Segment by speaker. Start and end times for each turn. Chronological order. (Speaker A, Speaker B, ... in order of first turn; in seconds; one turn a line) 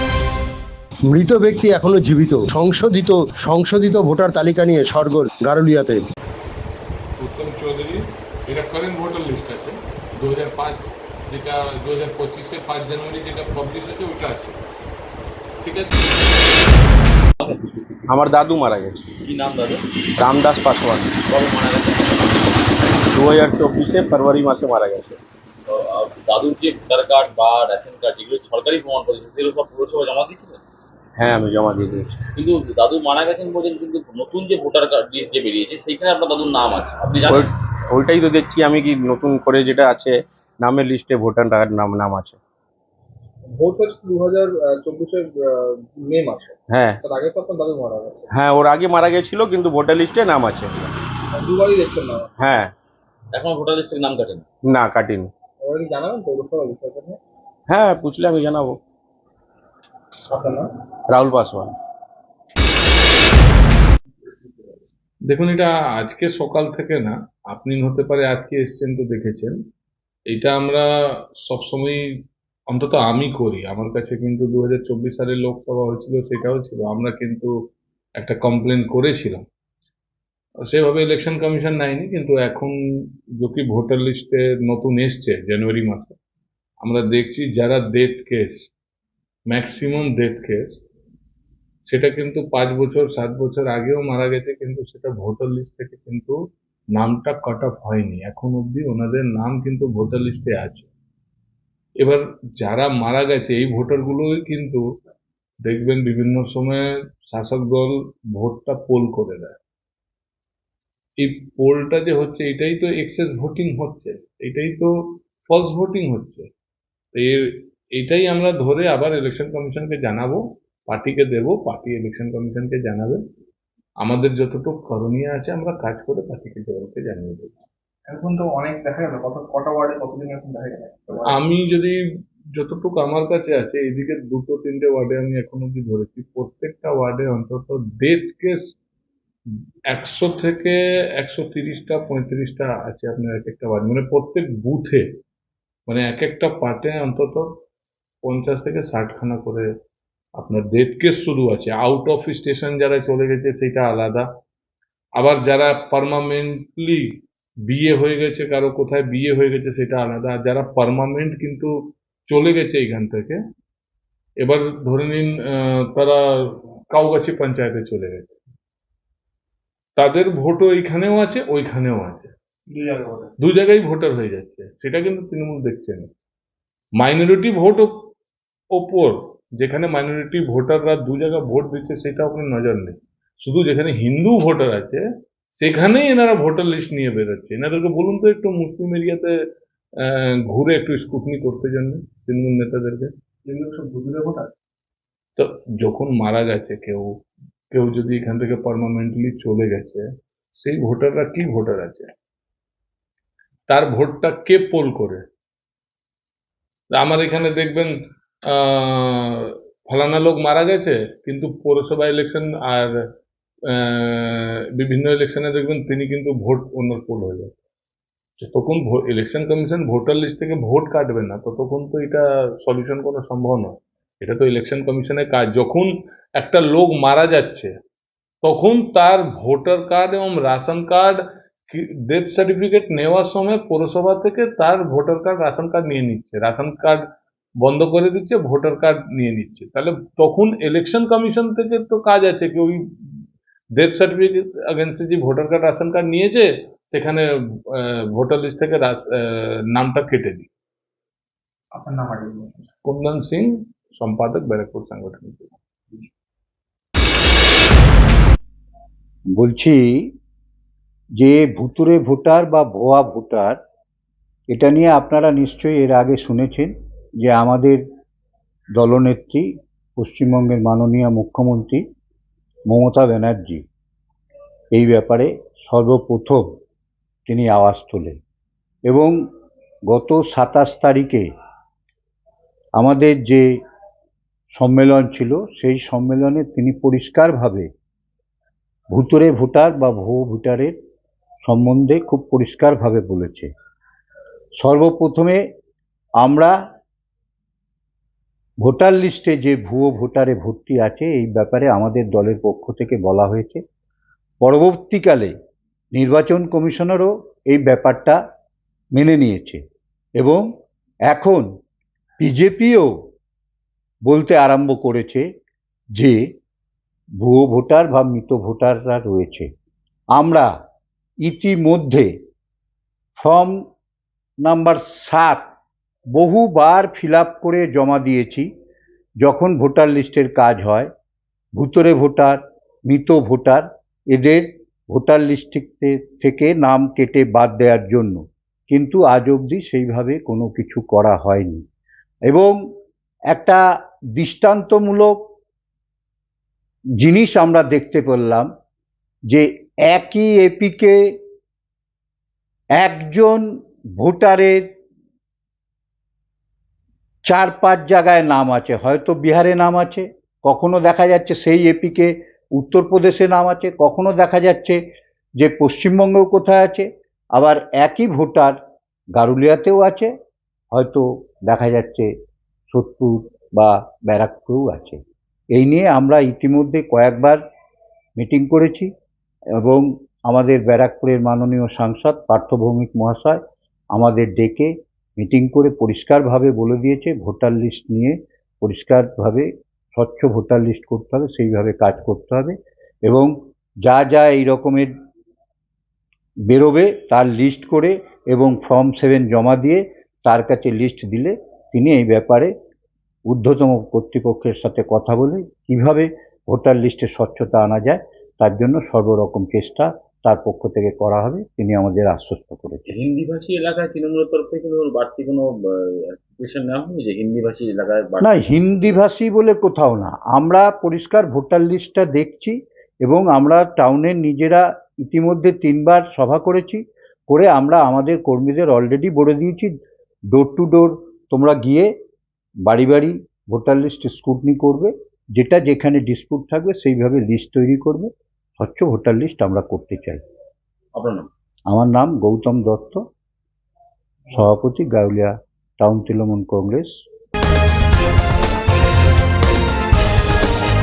Speaker A: 1.1-6.0
Speaker B: 7.2-14.6
Speaker B: 15.6-16.1
Speaker C: 17.4-17.7
Speaker D: 18.1-19.1
Speaker C: 19.2-19.9
Speaker D: 20.2-21.2
Speaker C: 21.3-22.5
Speaker D: 23.1-25.2
Speaker C: 25.7-30.6
Speaker D: 31.2-32.2
Speaker C: 32.4-37.5
Speaker D: 37.3-42.4
Speaker E: 43.5-48.3
Speaker D: 46.7-47.0
Speaker D: 48.3-51.0
Speaker E: 51.3-52.3
Speaker D: 52.4-52.7
Speaker C: 53.3-54.5
Speaker D: 54.7-55.3
Speaker E: 55.6-57.2
Speaker D: 57.7-58.8
Speaker E: 60.3-60.7
Speaker D: 61.1-61.8
Speaker E: 64.3-64.9
Speaker B: 65.3-69.6
Speaker B: 70.3-70.9
Speaker B: 71.5-72.0
Speaker B: 72.7-77.5
Speaker B: 78.2-79.5
Speaker B: 80.7-82.7
Speaker B: 83.4-86.2
Speaker B: 86.8-88.7
Speaker B: 89.5-90.8
Speaker B: 91.9-96.4
Speaker B: 97.0-100.9
Speaker B: 102.0-104.8
Speaker B: 105.7-109.6
Speaker B: 111.2-116.5
Speaker B: 117.1-123.2
Speaker B: 124.0-127.6
Speaker E: 128.1-131.4
Speaker B: 131.3-132.0
Speaker B: 132.5-138.7
Speaker B: 139.9-145.1
Speaker B: 145.9-147.6
Speaker B: 148.2-149.7
Speaker B: 150.4-154.3
Speaker B: 155.2-163.4
Speaker B: 164.4-168.4
Speaker B: 170.0-172.3
Speaker E: 172.7-173.3
Speaker B: 173.4-176.1
Speaker B: 177.0-177.9
Speaker B: 178.7-185.0
Speaker B: 185.6-189.3
Speaker B: 190.0-193.1
Speaker E: 193.5-194.5
Speaker B: 195.4-197.2
Speaker B: 197.7-202.1
Speaker B: 203.7-205.2
Speaker B: 206.9-207.9
Speaker B: 208.5-212.9
Speaker B: 213.7-217.5
Speaker B: 218.4-227.7
Speaker B: 228.4-237.0
Speaker B: 237.6-243.2
Speaker B: 243.8-250.5
Speaker E: 251.7-252.7
Speaker B: 252.8-255.6
Speaker F: 259.4-260.1
Speaker F: 261.2-263.6
Speaker F: 264.5-267.8
Speaker F: 268.8-271.8
Speaker F: 272.7-273.6
Speaker F: 274.7-276.4
Speaker F: 277.3-278.2
Speaker F: 278.9-279.1
Speaker F: 279.9-281.3
Speaker F: 282.8-283.5
Speaker F: 284.6-287.7
Speaker F: 288.9-290.8
Speaker F: 291.4-293.5
Speaker F: 294.6-295.4
Speaker F: 296.2-296.5
Speaker F: 298.6-303.6
Speaker F: 304.4-305.3
Speaker F: 305.9-308.2
Speaker F: 308.9-309.6
Speaker F: 310.2-310.4
Speaker F: 311.1-311.5
Speaker F: 312.2-312.9
Speaker F: 314.1-315.3
Speaker F: 317.2-319.5
Speaker F: 320.1-320.5
Speaker F: 321.2-322.1
Speaker F: 323.2-323.6
Speaker F: 324.4-325.4
Speaker F: 326.1-328.5
Speaker F: 329.2-330.9
Speaker F: 331.6-341.6
Speaker F: 342.3-342.6
Speaker F: 343.3-343.6
Speaker F: 344.2-345.2
Speaker F: 347.0-348.5
Speaker F: 349.3-351.1
Speaker F: 352.8-353.5
Speaker F: 354.0-354.6
Speaker F: 357.3-364.8
Speaker F: 365.4-368.6
Speaker F: 369.2-370.1
Speaker F: 370.7-372.1
Speaker F: 372.7-375.0
Speaker F: 375.5-377.4
Speaker F: 378.2-378.9
Speaker F: 379.6-383.4
Speaker F: 383.9-392.6
Speaker F: 393.1-393.3
Speaker F: 393.8-394.9
Speaker F: 396.5-402.5
Speaker F: 403.3-412.9
Speaker C: 412.9-419.0
Speaker F: 418.2-429.7
Speaker F: 430.3-431.9
Speaker F: 432.7-440.2
Speaker C: 440.9-441.3
Speaker F: 441.7-443.0
Speaker F: 444.3-447.0